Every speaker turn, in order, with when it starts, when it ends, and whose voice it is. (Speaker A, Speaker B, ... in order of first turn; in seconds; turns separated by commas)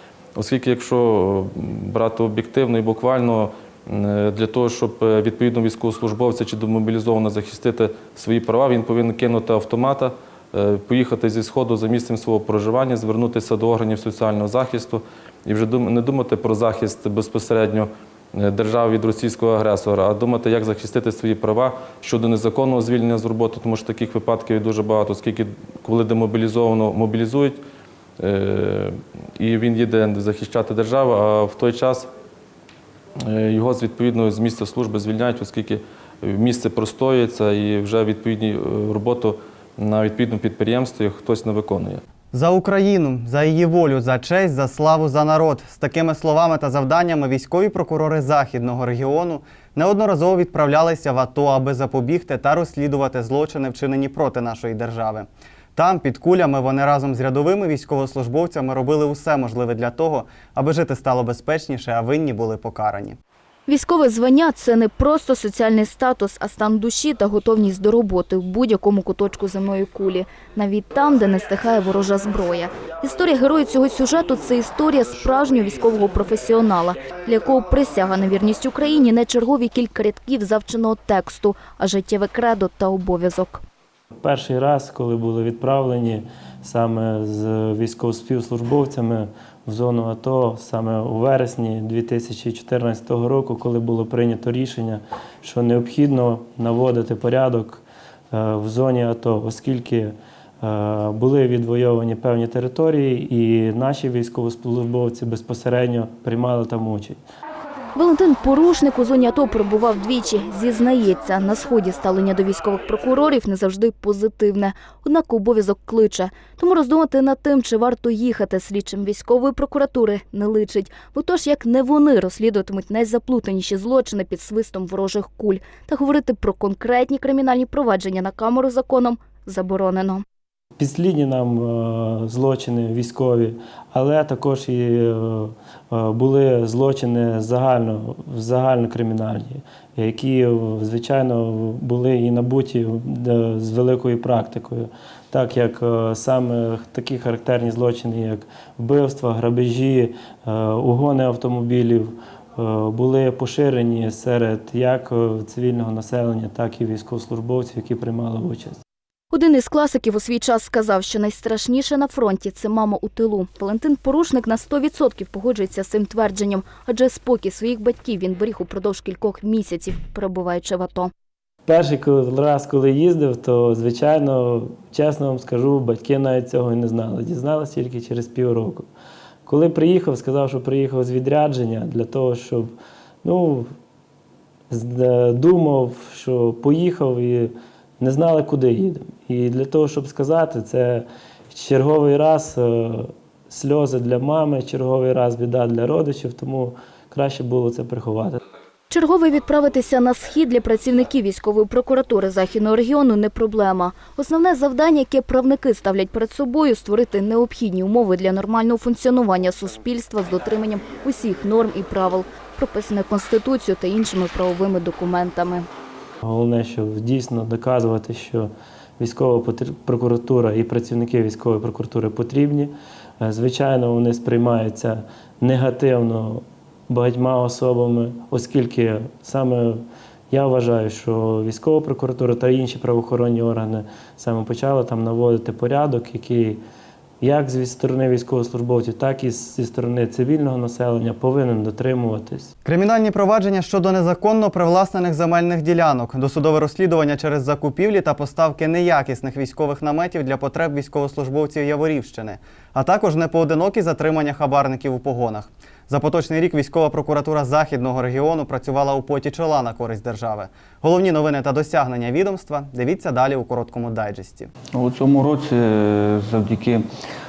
Speaker A: 0.4-27.6, Speaker A: 28.2-32.1, Speaker A: 33.2-42.0, Speaker B: 42.3-63.2, Speaker C: 63.7-83.6, Speaker D: 84.2-107.2, Speaker C: 108.0-130.2, Speaker D: 130.8-158.8, Speaker C: 159.3-171.1, Speaker D: 171.7-178.9, Speaker D: 179.5-182.7, Speaker D: 183.2-183.7, Speaker D: 184.7-198.4, Speaker C: 198.9-215.7, Speaker D: 216.2-229.8, Speaker D: 230.3-236.6, Speaker D: 237.2-242.5, Speaker B: 242.7-264.5, Speaker E: 264.8-266.9